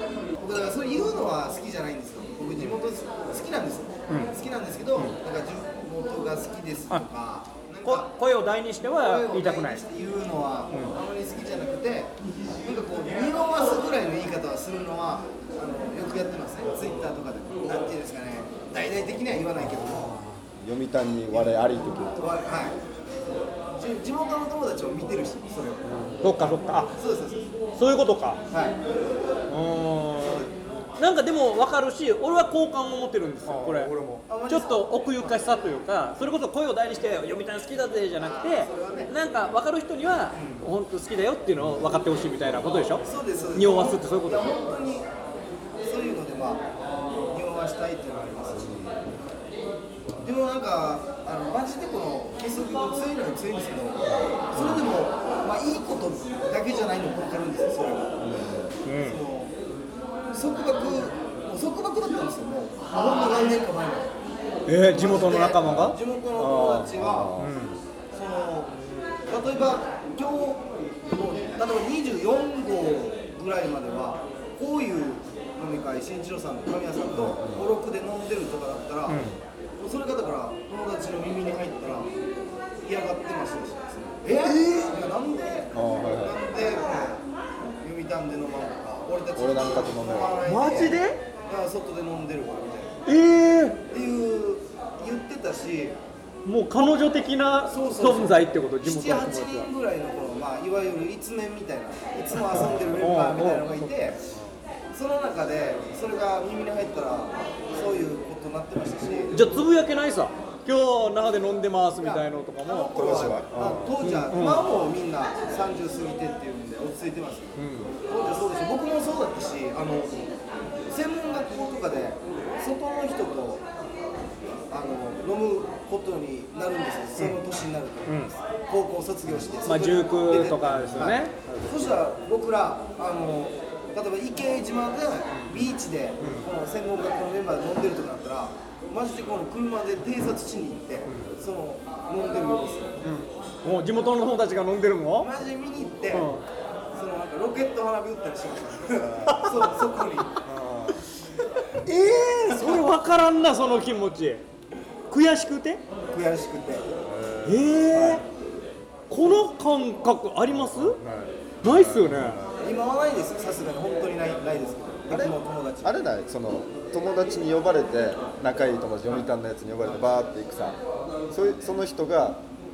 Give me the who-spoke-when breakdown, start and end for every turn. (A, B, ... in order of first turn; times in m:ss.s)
0:00.4-0:08.1 A
0:04.1-0:04.3 B
0:07.8-0:09.8 B
0:08.9-0:20.2 A
0:19.8-0:22.3 C
0:21.3-0:21.6 A
0:22.2-0:22.8 A
0:23.8-0:25.9 A
0:26.2-0:26.9 B
0:27.0-0:27.5 A
0:27.8-0:28.4 B
0:28.5-0:28.8 A
0:29.5-0:33.9 B
0:30.2-0:30.5 A
0:33.4-0:34.2 C
0:34.3-0:35.4 A
0:34.5-0:44.6 B
0:38.2-0:39.1 A
0:40.3-0:40.6 A
0:43.0-0:45.1 A
0:45.8-0:48.8 A
0:48.6-0:48.9 C
0:50.2-0:58.2 A
0:54.5-0:54.8 C
0:58.2-0:58.7 C
0:58.8-0:59.2 B
0:59.0-0:59.5 A
1:00.3-1:04.2 A
1:04.7-1:07.8 B
1:04.9-1:07.3 A
1:05.6-1:05.9 C
1:06.5-1:07.5 C
1:08.1-1:08.7 A
1:09.3-1:19.2 A
1:17.2-1:17.7 C
1:19.1-1:19.4 B
1:19.8-1:22.1 A
1:22.8-1:27.2 A
1:24.4-1:25.0 B
1:25.7-1:26.4 C
1:27.8-1:33.0 A
1:29.4-1:30.3 C
1:30.4-1:31.2 B
1:33.0-1:33.8 B
1:33.9-1:36.0 A
1:36.4-1:39.7 B
1:37.7-1:44.2 A
1:42.5-1:43.9 B
1:42.6-1:42.9 C
1:44.3-1:44.6 C
1:44.9-1:49.4 A
1:49.3-1:52.9 B
1:52.0-2:00.3 A
1:52.9-1:54.0 C
1:54.0-1:54.7 B
1:57.6-1:57.9 B
2:00.9-2:03.6 A
2:04.7-2:23.0 A
2:08.0-2:08.3 B
2:09.6-2:11.4 B
2:10.7-2:12.0 C
2:16.2-2:16.5 B
2:23.0-2:25.3 B
2:25.2-2:26.3 A
2:26.1-2:26.4 B
2:26.9-2:30.4 A
2:29.0-2:29.8 C
2:30.4-2:31.0 C
2:31.8-2:34.4 B
2:32.5-2:32.8 A
2:35.1-2:35.8 B
2:36.1-2:36.9 A
2:37.0-2:38.2 C
2:37.4-2:38.2 B
2:39.1-2:41.0 B
2:40.5-2:42.5 C
2:41.6-2:42.4 B
2:42.6-2:46.0 A
2:45.1-2:50.8 C
2:51.3-2:52.4 C